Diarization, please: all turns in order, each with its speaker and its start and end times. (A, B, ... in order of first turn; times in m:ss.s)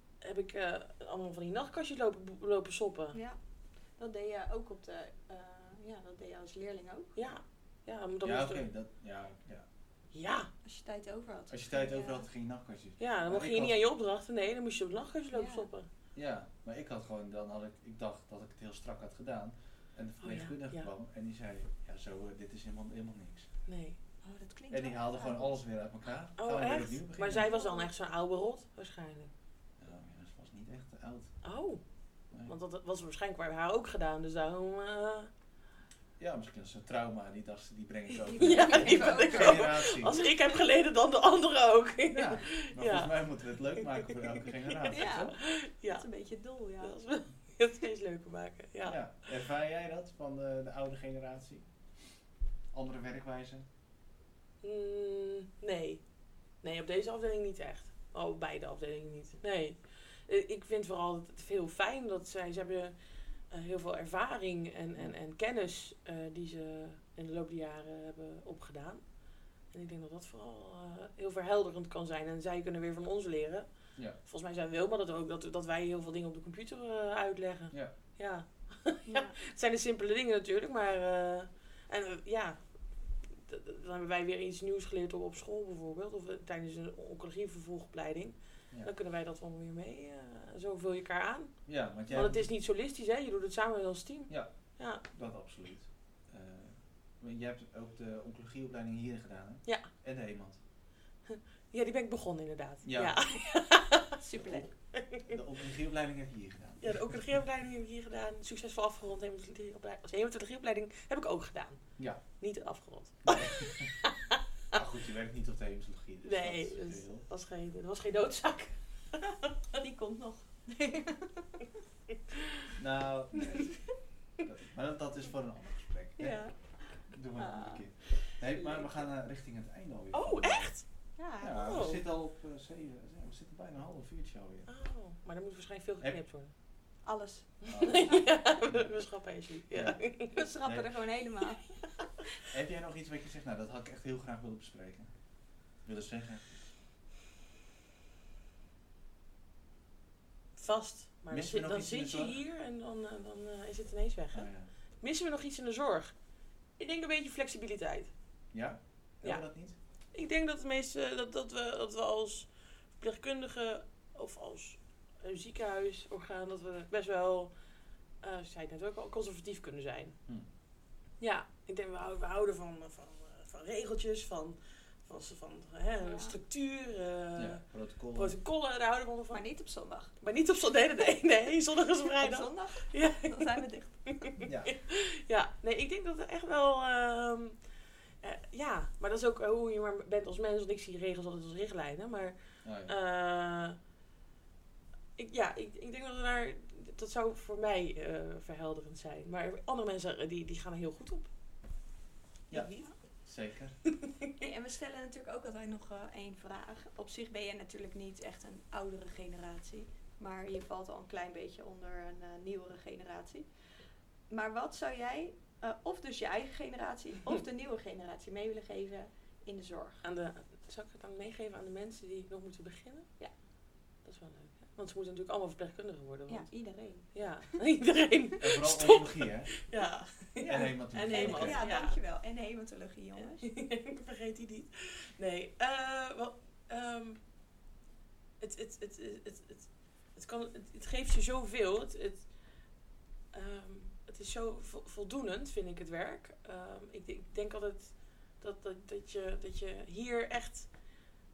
0:00.2-0:03.2 A
0:03.1-0:07.1 B
0:07.2-0:08.6 A
0:08.2-0:09.6 C
0:10.1-0:10.5 A
0:10.6-0:12.2 B
0:11.5-0:13.8 C
0:13.0-0:15.9 A
0:15.3-0:15.7 B
0:16.1-0:23.5 C
0:20.2-0:20.9 A
0:23.7-0:24.0 A
0:24.2-0:25.6 B
0:24.7-0:27.5 C
0:26.4-0:29.3 A
0:27.4-0:27.9 B
0:29.8-0:31.3 C
0:31.4-0:31.8 A
0:32.4-0:35.3 A
0:36.2-0:40.2 C
0:38.4-0:43.2 A
0:38.4-0:39.6 B
0:42.1-0:45.3 C
0:43.8-0:46.0 A
0:44.9-0:46.9 B
0:46.8-0:49.0 A
0:48.8-0:52.2 C
0:52.7-0:53.7 C
0:54.6-0:56.0 A
0:56.6-1:03.0 A
1:03.5-1:09.0 A
1:09.7-1:13.7 A
1:14.2-1:22.6 A
1:19.1-1:19.4 B
1:23.3-1:35.0 A
1:31.6-1:32.5 C
1:35.0-1:40.6 C
1:41.2-1:44.2 A
1:42.8-1:43.2 C
1:44.2-1:44.7 B
1:44.3-1:47.2 C
1:44.9-1:45.3 A
1:46.8-1:54.4 A
1:52.0-1:52.2 C
1:53.2-1:53.9 C
1:54.7-1:57.2 C
1:56.2-1:59.5 A
1:59.7-2:01.6 B
2:02.7-2:06.5 C
2:06.2-2:08.9 B
2:07.1-2:10.7 C
2:10.1-2:10.8 A
2:11.2-2:11.6 B
2:11.4-2:14.7 C
2:11.4-2:12.0 A
2:14.7-2:16.5 A
2:17.0-2:17.5 B
2:17.6-2:20.5 A
2:17.6-2:18.9 C
2:19.7-2:20.0 C
2:20.3-2:21.7 B
2:20.6-2:20.9 C
2:22.4-2:25.1 C
2:25.8-2:26.6 C
2:30.6-2:34.5 A
2:31.3-2:32.4 C
2:34.3-2:34.7 C
2:35.0-2:36.1 A
2:36.8-2:38.1 A
2:38.5-2:39.8 C
2:40.1-2:47.5 A
2:48.2-2:50.2 A
2:51.2-2:57.6 A
2:56.0-2:56.4 B
2:57.3-2:58.4 C
2:58.1-2:59.4 A
2:59.3-3:00.1 B
3:00.2-3:07.6 A
3:02.2-3:04.0 B
3:04.4-3:04.7 C
3:08.2-3:13.8 A
3:12.6-3:12.9 C
3:15.2-3:21.3 A
3:22.5-3:22.9 A
3:23.2-3:23.8 C
3:24.4-3:33.5 B
3:34.3-3:40.0 B
3:40.0-3:43.1 A
3:44.0-3:46.5 A
3:46.3-3:47.5 B
3:47.1-3:52.0 A
3:48.4-3:49.5 C
3:50.4-3:51.7 C
3:50.4-3:53.4 B
3:53.4-3:57.2 A
3:58.4-4:02.3 A
4:03.3-4:10.7 A